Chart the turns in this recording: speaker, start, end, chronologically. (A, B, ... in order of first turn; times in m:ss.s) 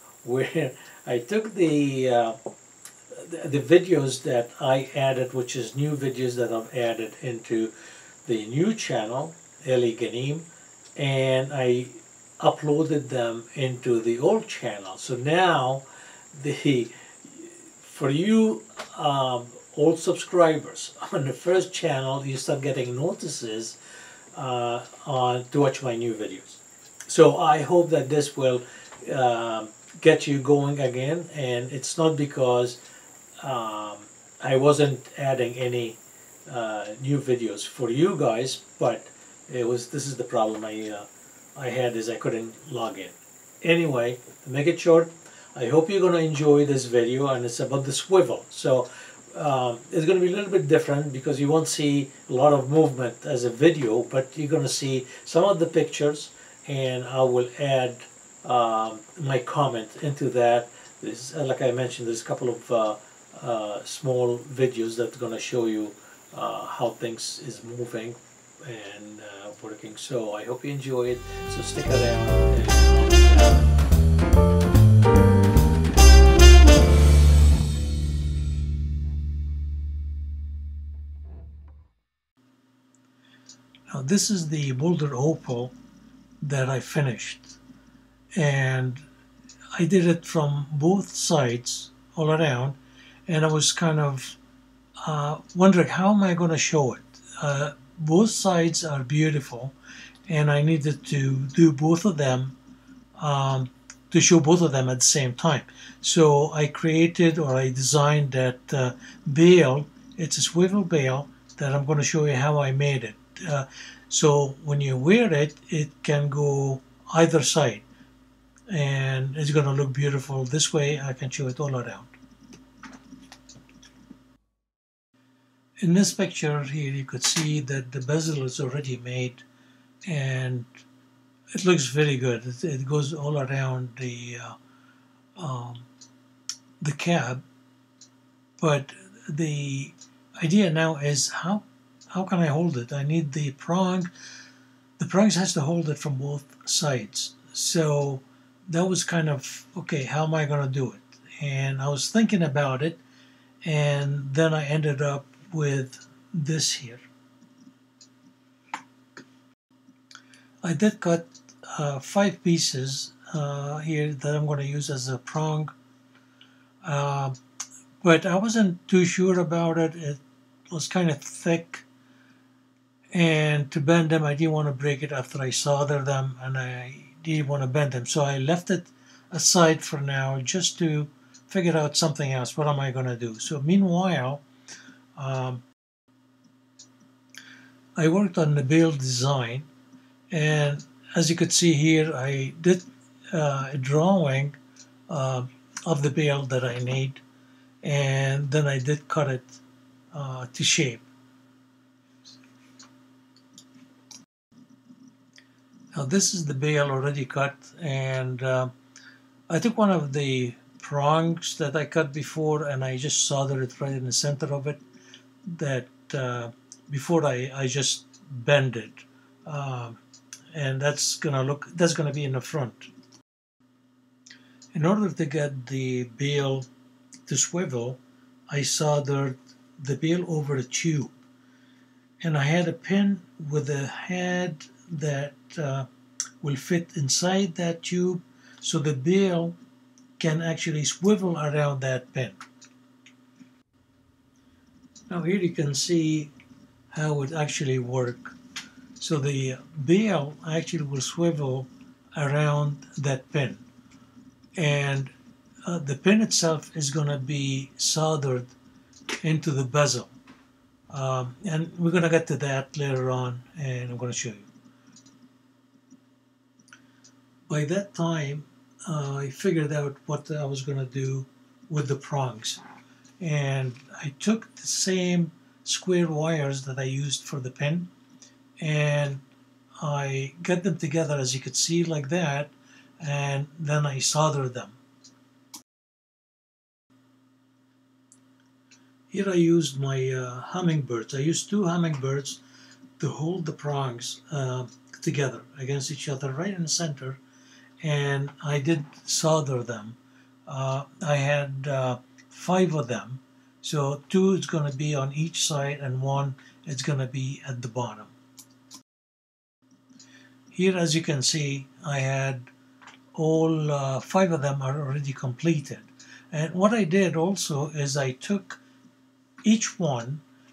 0:00.2-0:02.4 A
0:03.1-0:07.7 A
0:08.2-0:23.8 A
0:24.3-0:32.8 A
0:33.4-1:13.9 A
1:23.9-1:25.7 A
1:26.4-1:27.6 A
1:28.4-1:29.0 A
1:29.8-1:34.4 A
1:35.0-1:39.7 A
1:40.3-1:42.5 A
1:43.2-1:57.8 A
1:58.7-2:02.1 A
2:05.8-2:09.4 A
2:10.1-2:10.7 A
2:11.6-2:14.6 A
2:15.4-2:15.9 A
2:16.8-2:17.4 A
2:18.6-2:24.1 A
2:25.0-2:33.0 A
2:33.6-2:37.0 A
2:40.6-2:45.7 A
2:46.8-2:47.4 A
2:48.0-2:51.8 A
2:53.1-3:04.4 A
3:05.2-3:05.6 A
3:08.0-3:09.7 A
3:10.3-3:14.6 A
3:15.1-3:17.2 A
3:17.8-3:19.6 A
3:20.1-3:21.0 A
3:25.9-3:28.7 A
3:29.5-3:34.8 A
3:35.5-3:40.0 A
3:40.5-3:42.9 A
3:44.7-3:46.7 A
3:47.3-3:51.2 A
3:52.2-3:55.9 A
3:56.4-3:59.6 A
4:00.2-4:02.4 A
4:05.1-4:06.3 A
4:06.9-4:08.4 A
4:09.0-4:13.6 A
4:14.6-4:15.1 A
4:15.6-4:18.5 A
4:19.2-4:20.1 A
4:20.9-4:24.5 A
4:27.5-4:32.6 A
4:33.2-4:37.9 A
4:38.6-4:39.2 A
4:39.8-4:44.8 A
4:49.1-4:52.4 A
4:53.0-4:57.2 A
4:57.8-5:08.1 A
5:10.5-5:12.5 A
5:13.2-5:18.6 A
5:19.4-5:20.2 A